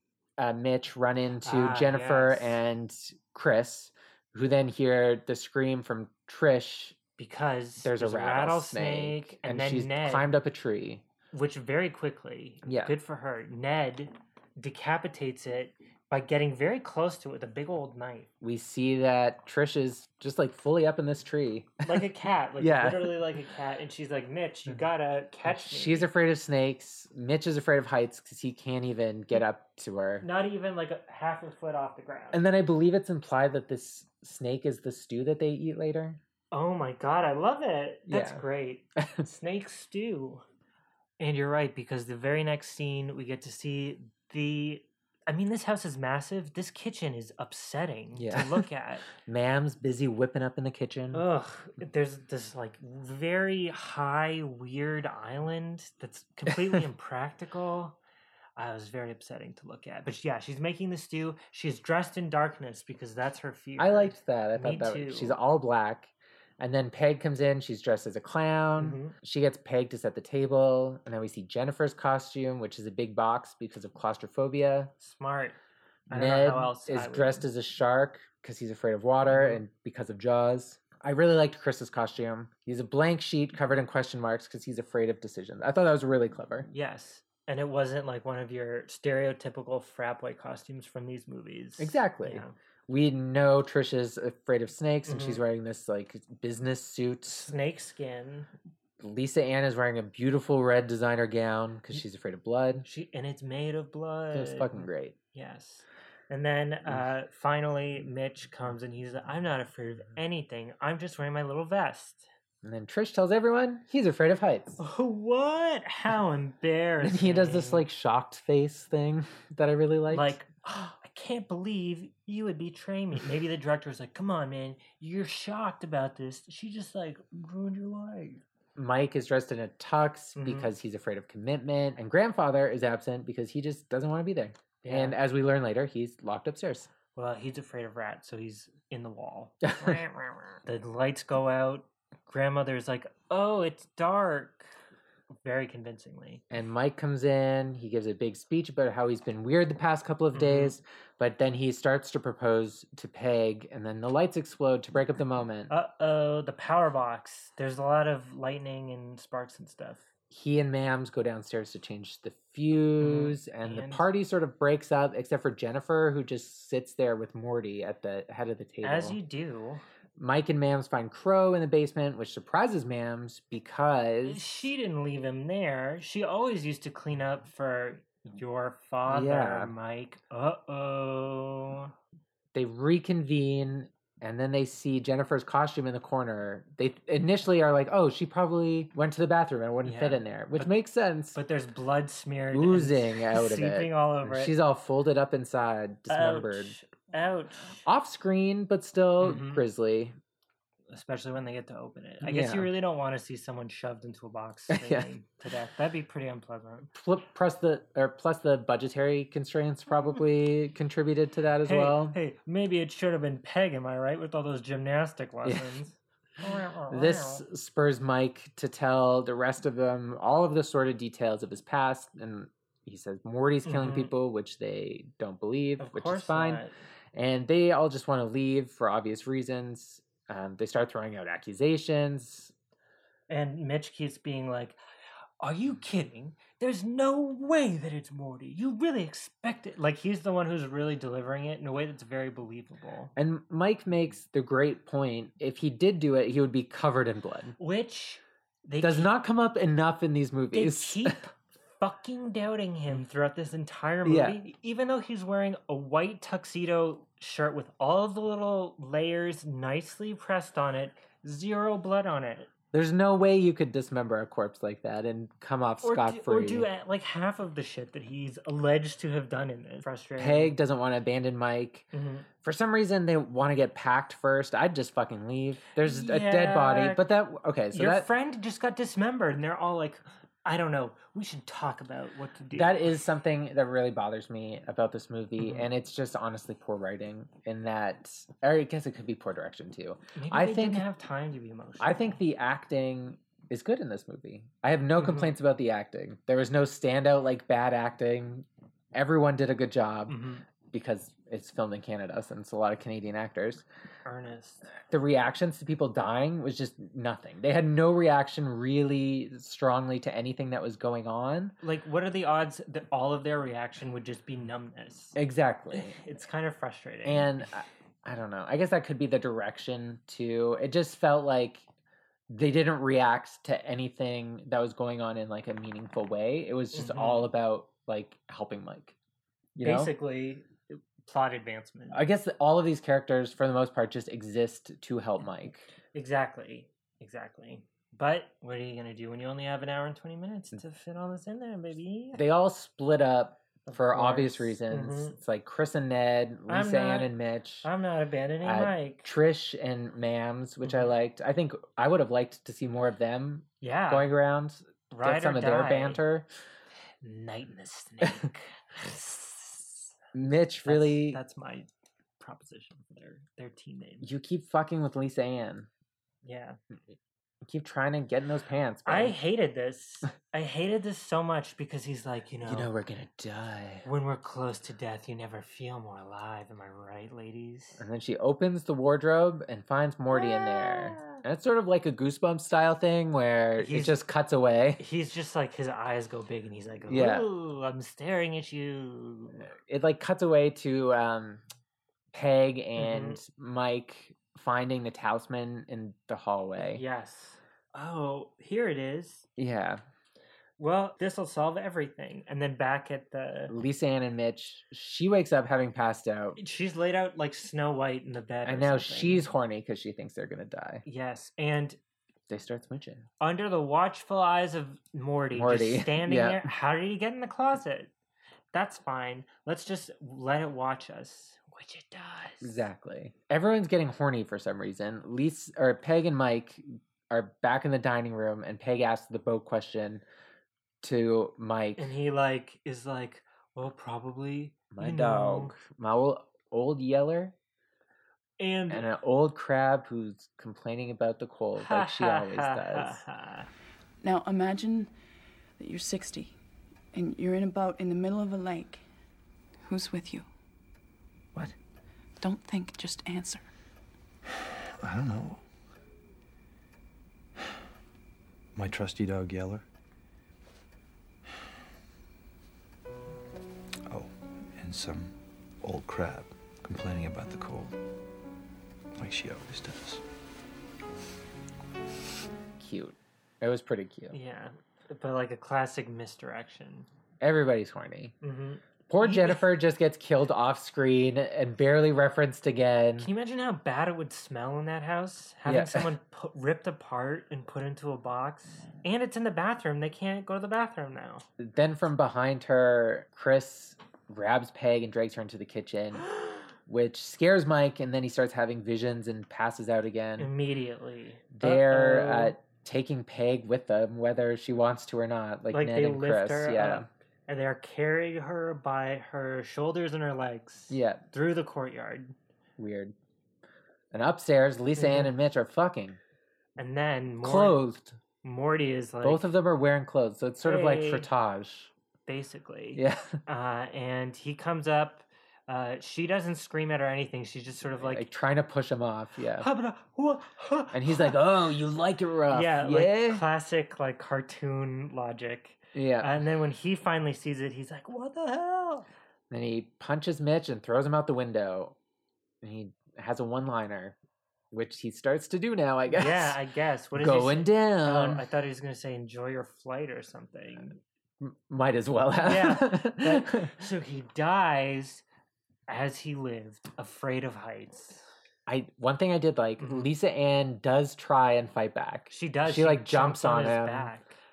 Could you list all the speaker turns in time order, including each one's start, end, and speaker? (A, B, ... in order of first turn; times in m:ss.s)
0:00.4-0:07.0 A
0:01.4-0:02.6 B
0:07.2-0:10.4 B
0:07.8-0:11.1 A
0:11.3-0:18.3 B
0:12.6-0:12.9 A
0:18.4-0:22.0 A
0:21.8-0:26.1 B
0:22.6-0:23.2 A
0:25.4-0:30.3 A
0:30.2-0:32.4 B
0:32.3-0:36.2 A
0:36.5-0:40.4 B
0:38.1-0:38.4 A
0:39.0-0:39.2 A
0:41.2-0:49.1 B
0:48.2-0:51.2 A
0:51.1-0:58.0 B
0:58.6-1:05.4 B
1:03.8-1:14.9 A
1:08.8-1:09.2 B
1:15.0-1:15.6 B
1:16.1-1:17.5 B
1:16.1-1:26.7 A
1:19.3-1:19.6 B
1:26.7-1:32.6 B
1:31.8-1:37.5 A
1:35.1-1:35.4 B
1:37.3-1:38.5 B
1:39.0-1:42.9 A
1:42.8-1:52.3 B
1:44.3-1:45.2 A
1:52.6-1:54.8 A
1:54.8-1:57.9 B
1:57.0-2:00.4 A
2:00.1-2:08.4 B
2:08.8-2:16.9 A
2:10.4-2:10.7 B
2:14.8-2:15.2 B
2:17.1-2:24.7 B
2:19.6-2:20.0 A
2:25.4-2:26.4 B
2:26.5-2:35.7 A
2:30.3-2:30.8 B
2:35.7-2:40.1 B
2:40.3-2:49.2 A
2:43.0-2:44.1 B
2:48.8-2:49.8 B
2:50.2-2:54.5 A
2:54.2-3:01.9 B
2:59.1-2:59.7 A
3:02.5-3:11.4 A
3:09.8-3:10.8 B
3:11.3-3:14.6 B
3:12.5-3:16.8 A
3:16.1-3:17.8 B
3:17.8-3:20.2 A
3:19.2-3:19.6 B
3:20.9-3:26.9 B
3:22.2-3:22.7 A
3:24.7-3:25.1 A
3:26.9-3:32.2 A
3:31.6-3:37.4 B
3:35.4-3:35.8 A
3:36.9-3:52.5 A
3:43.6-3:44.1 B
3:45.8-3:46.8 B
3:53.3-3:54.8 B
3:55.4-4:03.1 B
4:03.2-4:07.6 A
4:07.6-4:09.1 B
4:08.8-4:11.2 A
4:10.5-4:22.5 B
4:14.0-4:14.4 A
4:22.7-4:26.7 A
4:25.8-4:30.6 B
4:30.2-4:31.9 A
4:31.9-4:32.3 B
4:32.4-4:38.1 A
4:35.8-4:37.1 B
4:37.7-4:42.9 B
4:42.5-4:50.9 A
4:45.4-4:45.7 B
4:50.2-4:52.2 B
4:51.8-5:03.6 A
4:55.0-4:55.4 B
5:00.1-5:00.4 B
5:04.0-5:04.7 B
5:04.9-5:11.6 A
5:11.6-5:15.2 B
5:15.2-5:16.0 A
5:15.7-5:17.5 B
5:17.0-5:21.7 A
5:22.3-5:29.0 A
5:26.7-5:27.3 B
5:29.6-5:29.9 A
5:29.6-5:32.0 B
5:31.9-5:35.7 A
5:35.9-5:42.2 B
5:42.1-5:47.7 A
5:43.6-5:45.2 B
5:46.5-5:47.1 B
5:47.6-5:49.1 B
5:48.4-5:56.3 A
5:50.6-5:50.9 B
5:53.6-5:54.1 B
5:54.9-5:56.0 B
5:57.0-5:59.9 B
6:00.1-6:01.2 A
6:00.7-6:04.1 B
6:04.0-6:05.7 A
6:06.2-6:06.6 B
6:07.4-6:09.2 A
6:08.9-6:12.7 B
6:12.4-6:13.9 A
6:13.8-6:17.8 B
6:17.8-6:24.8 A
6:20.1-6:21.2 B
6:23.6-6:24.0 B
6:24.8-6:29.5 B
6:26.9-6:27.3 A
6:29.4-6:31.4 A
6:32.1-6:36.8 A
6:32.8-6:33.2 B
6:36.6-6:39.2 B
6:39.4-6:39.8 A
6:40.6-6:43.5 B
6:43.5-6:46.4 A
6:46.4-6:49.3 B
6:48.4-6:50.8 A
6:50.8-6:51.8 B
6:52.3-6:53.1 A
6:53.2-6:57.9 B
6:55.3-6:56.5 A
6:58.5-7:02.7 B
7:02.4-7:10.0 A
7:10.8-7:11.9 A
7:11.8-7:15.5 B
7:14.7-7:17.4 A
7:18.4-7:18.9 B
7:18.7-7:23.0 A
7:21.6-7:23.5 B
7:24.0-7:24.9 C
7:25.6-7:26.4 C
7:26.9-7:28.8 C
7:29.6-7:30.3 C
7:32.2-7:33.4 C
7:34.9-7:35.4 D
7:38.6-7:39.6 D
7:44.6-7:45.1 D
7:45.6-7:47.7 D
7:49.0-7:50.0 D
7:52.6-7:54.2 A
7:54.1-7:56.9 B
7:57.2-7:58.2 A
7:58.2-7:59.5 B
7:58.9-8:03.1 A
8:03.0-8:11.3 B
8:05.5-8:05.9 A
8:11.4-8:16.1 A
8:16.7-8:20.3 A
8:20.2-8:22.4 B
8:21.3-8:26.9 A
8:25.5-8:32.2 B
8:30.7-8:31.0 A
8:32.6-8:33.0 A
8:33.9-8:36.0 A
8:34.8-8:35.1 B
8:36.6-8:37.6 B
8:37.2-8:38.0 A
8:38.2-8:39.3 B
8:39.0-8:41.7 A
8:40.4-8:41.1 B
8:42.1-8:48.1 B
8:42.8-8:43.2 A
8:47.7-8:49.5 A
8:49.4-8:51.2 B
8:50.7-8:53.2 A
8:52.3-8:58.9 B
8:55.7-8:56.1 A
8:59.3-9:01.8 A
9:02.4-9:04.0 A
9:04.5-9:06.4 A
9:05.9-9:10.8 B
9:06.9-9:08.2 A
9:11.2-9:13.5 A
9:12.2-9:15.0 B
9:15.7-9:18.0 B
9:18.5-9:23.9 A
9:19.6-9:19.9 B
9:22.1-9:24.2 B